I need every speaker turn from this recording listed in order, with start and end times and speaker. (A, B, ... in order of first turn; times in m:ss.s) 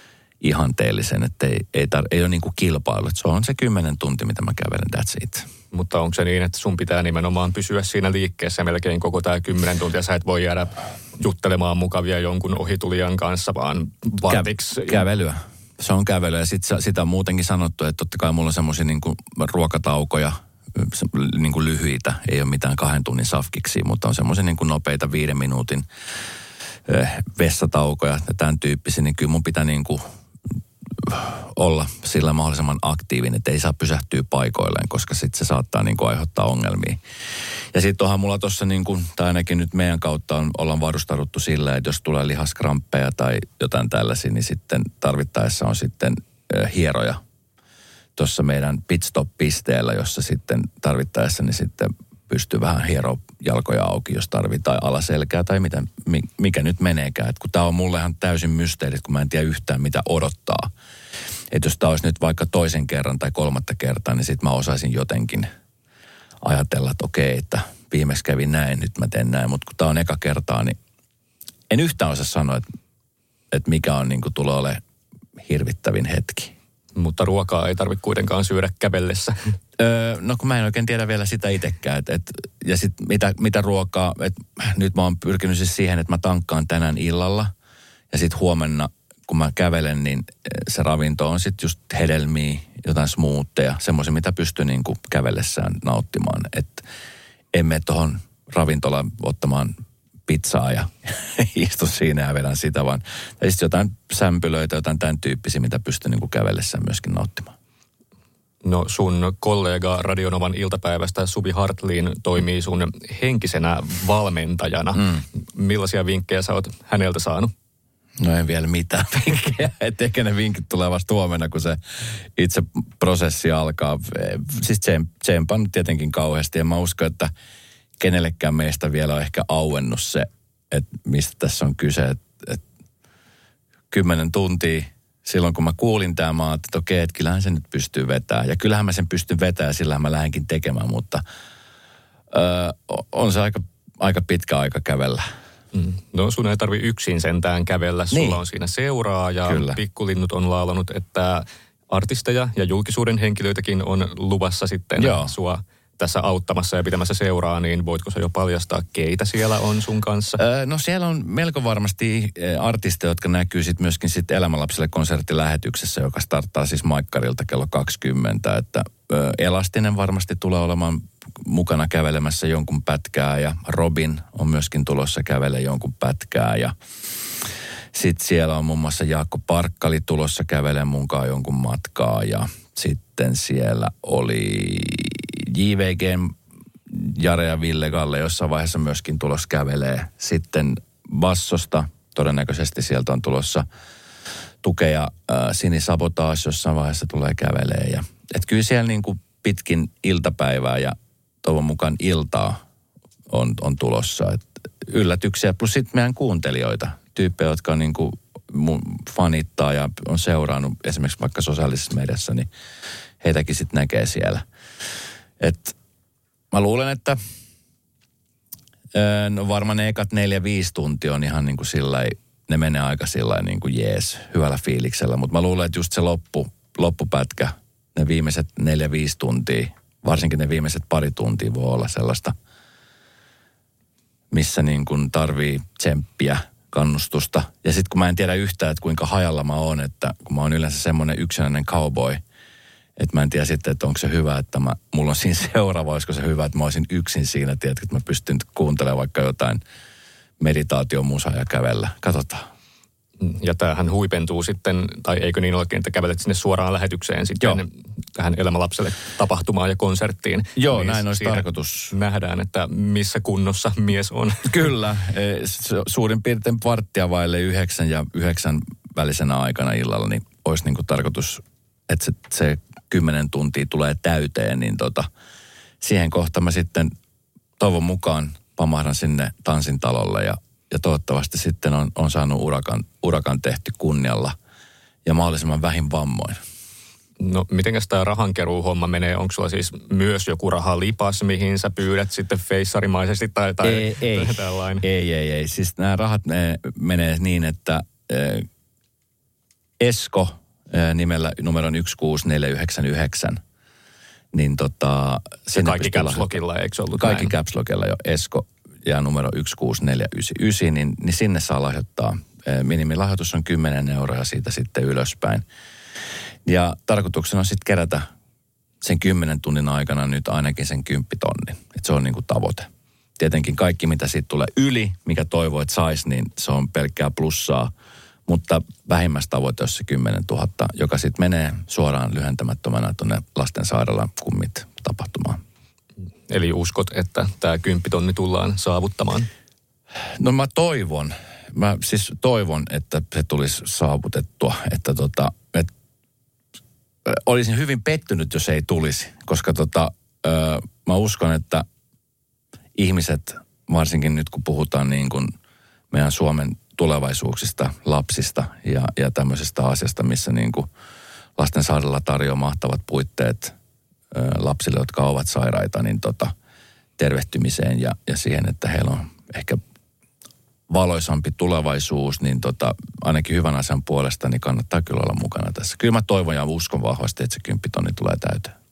0:00.4-0:05.5 A
0:05.7-0:15.0 B
0:14.3-0:25.8 A
0:26.8-0:30.0 A
0:31.0-0:37.0 A
0:37.7-0:47.2 A
0:48.2-1:00.7 A
1:01.5-1:05.5 A
1:06.4-1:10.8 A
1:11.7-1:12.6 A
1:13.5-1:14.8 A
1:15.4-1:16.5 A
1:16.9-1:19.6 B
1:19.8-1:27.5 A
1:28.1-1:36.8 A
1:37.5-1:39.7 A
1:40.3-1:47.5 A
1:48.6-1:57.5 B
1:55.0-1:55.2 A
1:58.2-2:07.3 A
2:08.0-2:12.6 A
2:13.9-2:21.2 A
2:22.3-2:25.2 A
2:25.7-2:40.4 B
2:28.1-2:28.4 A
2:29.4-2:29.8 A
2:35.0-2:35.3 A
2:40.4-2:56.7 A
2:57.9-3:06.3 A
3:06.9-3:13.6 A
3:14.6-3:22.6 A
3:23.3-3:32.5 A
3:33.2-3:34.4 A
3:35.4-3:35.8 A
3:36.5-3:37.2 A
3:38.9-3:52.3 A
3:54.3-4:02.2 A
4:03.0-4:09.6 A
4:10.4-4:12.5 A
4:13.2-4:24.7 B
4:20.6-4:21.9 A
4:24.4-4:35.1 A
4:35.8-4:36.9 A
4:37.6-4:44.3 A
4:45.0-4:46.4 A
4:47.2-4:54.8 B
4:53.6-4:58.4 A
4:59.8-5:03.4 A
5:04.3-5:06.3 A
5:05.5-5:07.3 B
5:06.9-5:15.4 A
5:16.4-5:18.1 A
5:18.8-5:27.7 A
5:28.3-5:35.4 A
5:36.3-5:39.3 B
5:40.2-5:45.7 A
5:47.0-5:51.6 A
5:52.7-5:55.3 A
5:55.9-6:00.7 A
6:01.4-6:03.5 A
6:04.1-6:06.3 A
6:07.0-6:09.6 A
6:10.7-6:18.5 A